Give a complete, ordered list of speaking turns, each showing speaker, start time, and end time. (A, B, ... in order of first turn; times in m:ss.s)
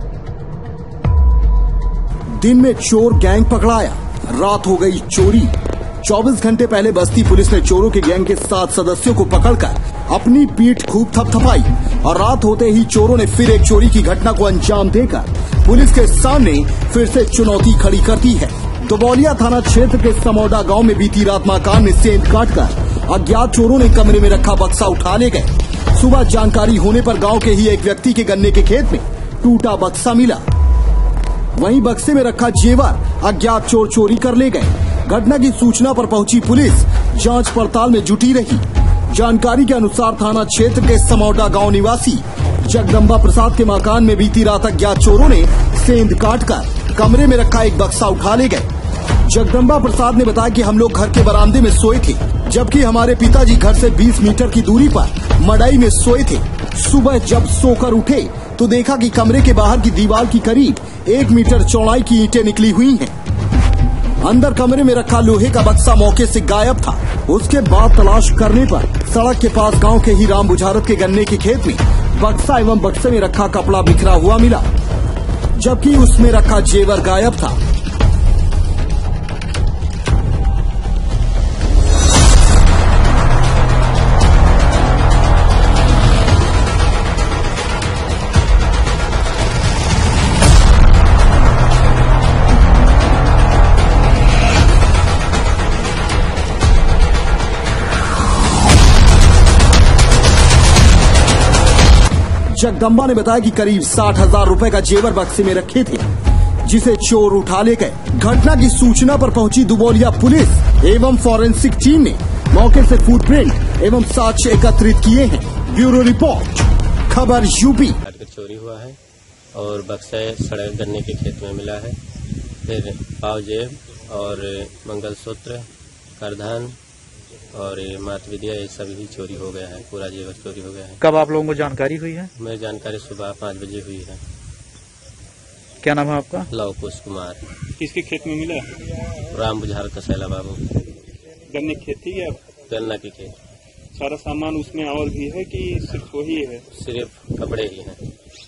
0:02.4-0:05.5 A
0:06.0-0:30.4 A
0:31.6-0:48.7 A
0:49.2-1:03.1 A
1:04.2-1:14.6 A
1:15.5-1:17.6 A
1:42.5-1:46.0 A
1:46.6-1:58.0 A
1:58.0-1:59.0 B
1:59.5-2:02.0 B
2:02.6-2:06.8 B
2:07.5-2:11.0 B
2:11.0-2:12.3 C
2:12.4-2:14.2 B
2:15.8-2:16.5 C
2:16.5-2:17.4 B
2:17.8-2:18.7 D
2:19.3-2:20.6 B
2:21.5-2:22.4 D
2:22.7-2:23.3 B
2:23.9-2:26.6 D
2:26.7-2:28.0 B